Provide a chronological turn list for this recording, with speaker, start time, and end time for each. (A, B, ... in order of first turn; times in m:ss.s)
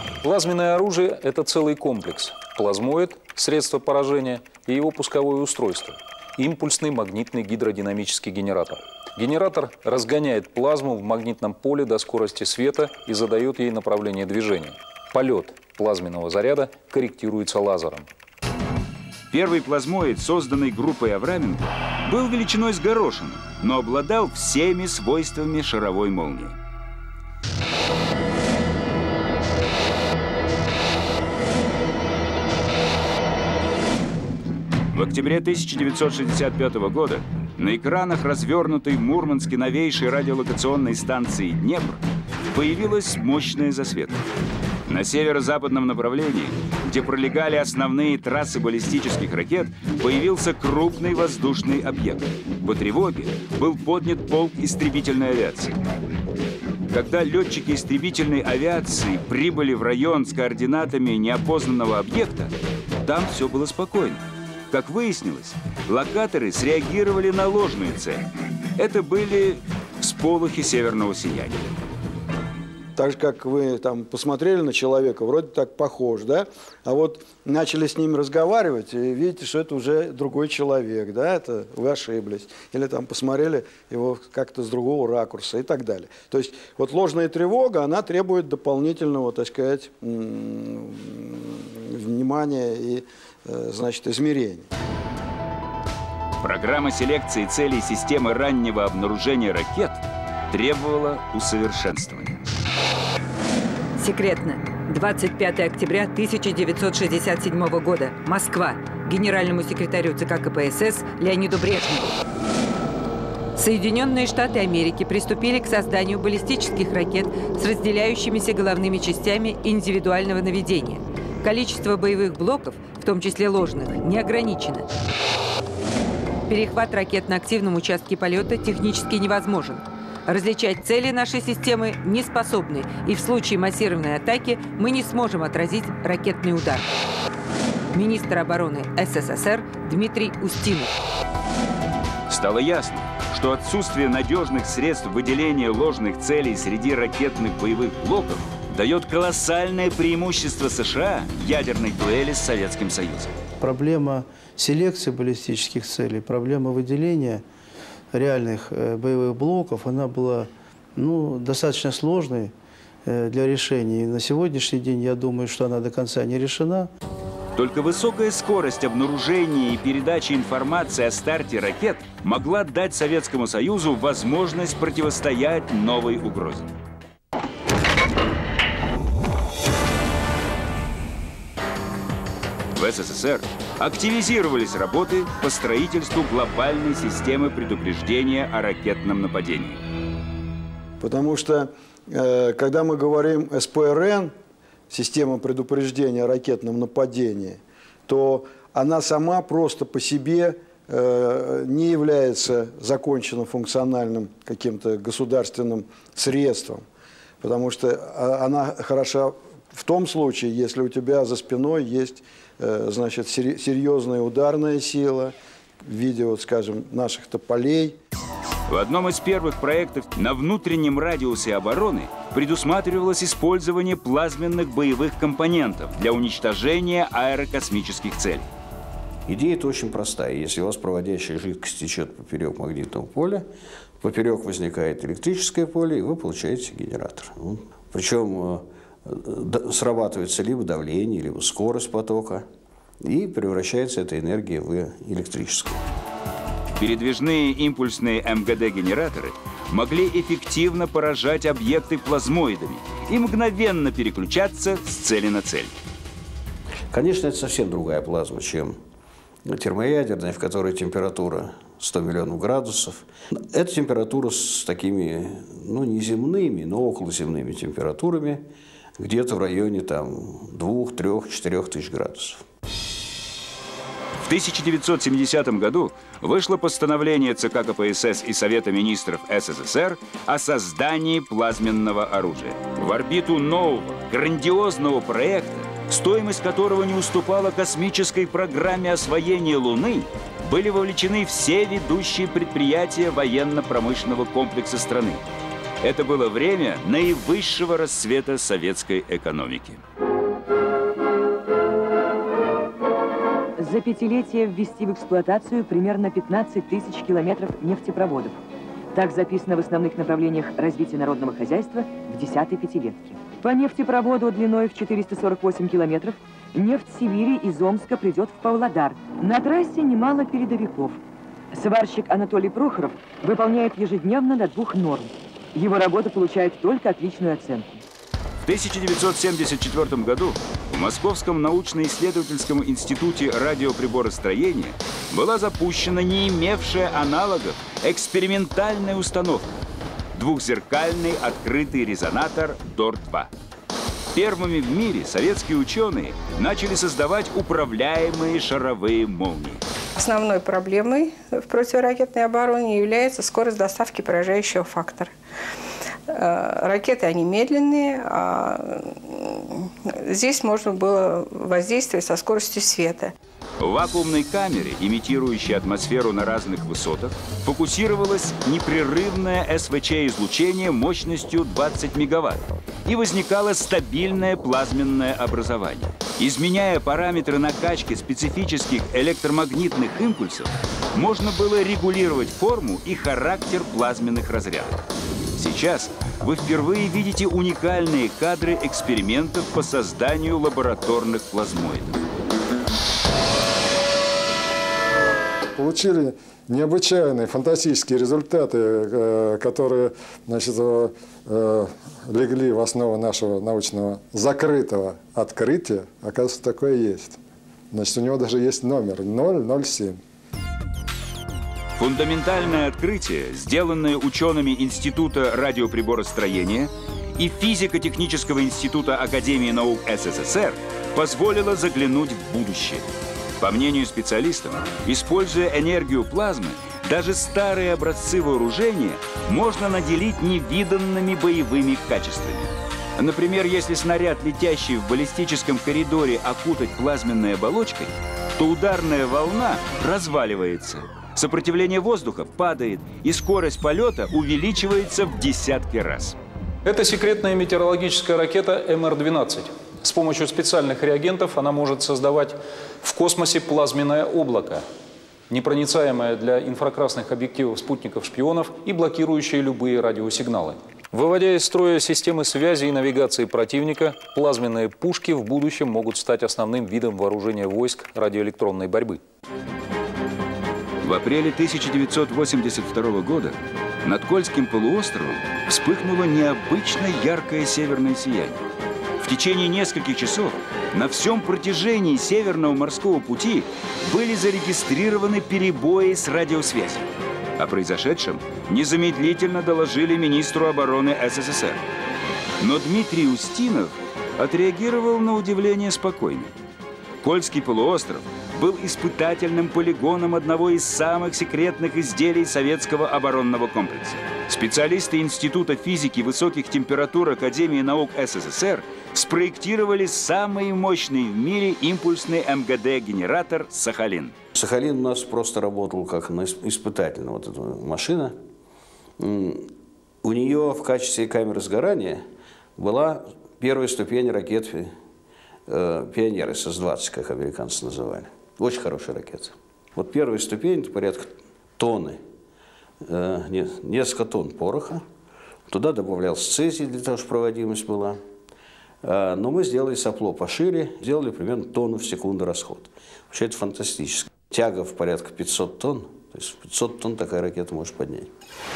0:00.2-0:18.1 A
0:19.3-0:26.6 B
0:34.9-0:42.0 B
0:42.5-0:44.2 B
0:44.9-0:55.8 B
0:56.9-1:02.5 B
1:03.0-1:08.3 B
1:08.8-1:11.7 B
1:13.0-1:34.7 C
1:36.4-1:42.4 B
1:44.0-1:52.2 D
1:53.6-2:04.9 D
2:06.5-2:16.9 D
2:17.9-2:20.9 D
2:22.3-2:33.3 B
2:33.6-2:37.4 E
2:38.1-2:42.5 E
2:43.1-2:46.9 E
2:47.6-2:56.7 B
3:02.8-3:09.8 B
3:11.0-3:14.3 C
3:14.9-3:26.8 C
3:27.4-3:38.0 C
3:38.7-3:48.5 B
3:49.3-3:53.5 F
3:54.0-4:02.5 F
4:03.0-4:05.8 F
4:06.8-4:15.7 B
4:16.9-4:18.8 F
4:19.5-4:28.5 F
4:29.0-4:32.4 F
4:34.2-4:55.2 B
4:55.8-4:59.8 B
5:03.6-5:08.4 G
5:08.9-5:21.0 G
5:21.5-5:27.8 G
5:28.4-5:39.5 B
5:40.1-5:43.3 B
5:44.1-5:49.6 B
5:50.0-5:55.1 H
5:56.1-6:03.1 H
6:03.6-6:24.8 B
6:25.4-6:32.0 B
6:35.6-6:47.2 I
6:47.7-6:50.0 I
6:51.8-7:02.8 B
7:03.4-7:26.2 B
7:26.6-7:34.6 A
7:35.3-7:49.0 A
7:50.8-7:58.4 B
7:59.0-8:11.6 B
8:12.4-8:16.3 B
8:17.0-8:34.2 B
8:34.3-8:38.2 F
8:39.0-8:42.0 F
8:42.6-8:44.7 F
8:45.5-8:52.0 F
8:52.8-8:54.8 F
8:55.5-8:58.0 F
8:58.8-9:08.1 F